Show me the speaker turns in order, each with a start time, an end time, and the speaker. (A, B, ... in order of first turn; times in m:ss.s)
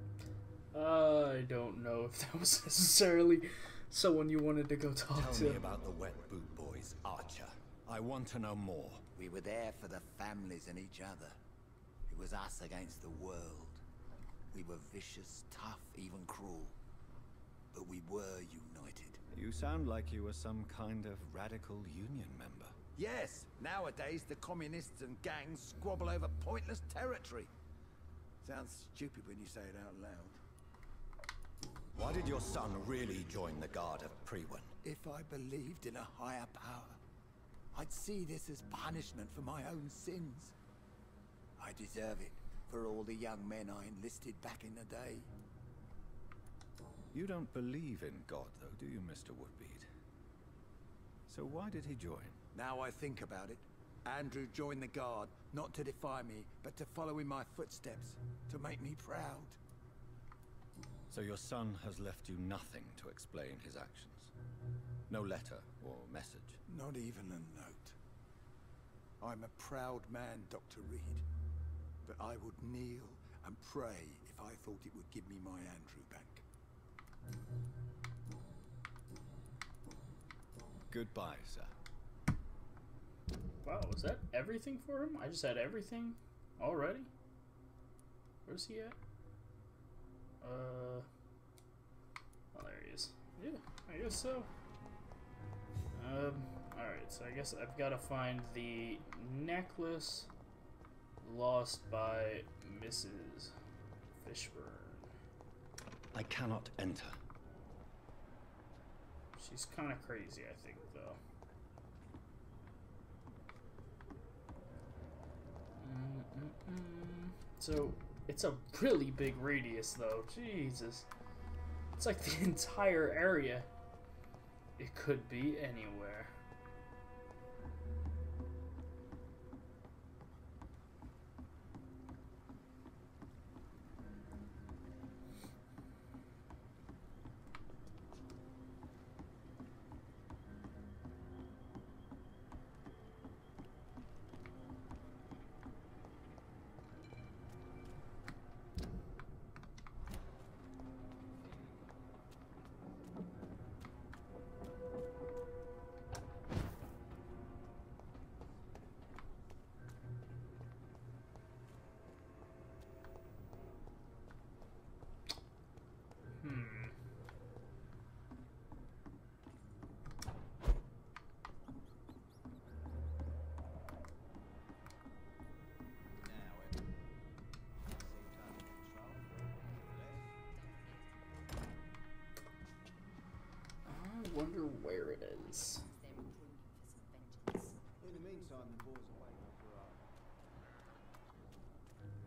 0:00.7-0:05.6 A
0:05.1-0:09.1 B
0:09.2-0:11.4 C
0:12.1-0:13.8 C
0:14.5-0:16.8 C
0:17.7-0:19.2 C
0:19.3-0:22.8 B
0:23.0-0:27.5 C
0:28.4-0:30.4 C
0:31.9-0:34.7 B
0:34.8-0:37.0 C
0:37.7-0:40.5 C
0:41.6-0:45.3 C
0:47.1-0:49.9 B
0:51.3-0:52.4 B
0:52.5-0:59.6 C
1:01.1-1:04.3 B
1:05.1-1:06.6 B
1:06.7-1:08.0 C
1:09.2-1:11.2 C
1:12.0-1:16.4 C
1:20.9-1:21.7 B
1:23.6-1:27.1 A
1:28.4-1:29.0 A
1:30.4-1:31.0 A
1:32.5-1:34.5 A
1:35.9-1:40.3 A
1:41.2-1:43.5 A
1:44.2-1:45.0 A
1:46.1-1:47.2 B
1:49.4-1:51.2 A
1:55.8-2:01.1 A
2:02.0-2:03.7 A
2:04.8-2:06.3 A
2:46.4-2:46.9 A
2:56.2-2:56.7 C
2:58.0-2:59.2 C
2:59.5-3:01.2 D
3:03.8-3:05.8 A
3:05.5-3:08.5 D
3:08.6-3:09.9 C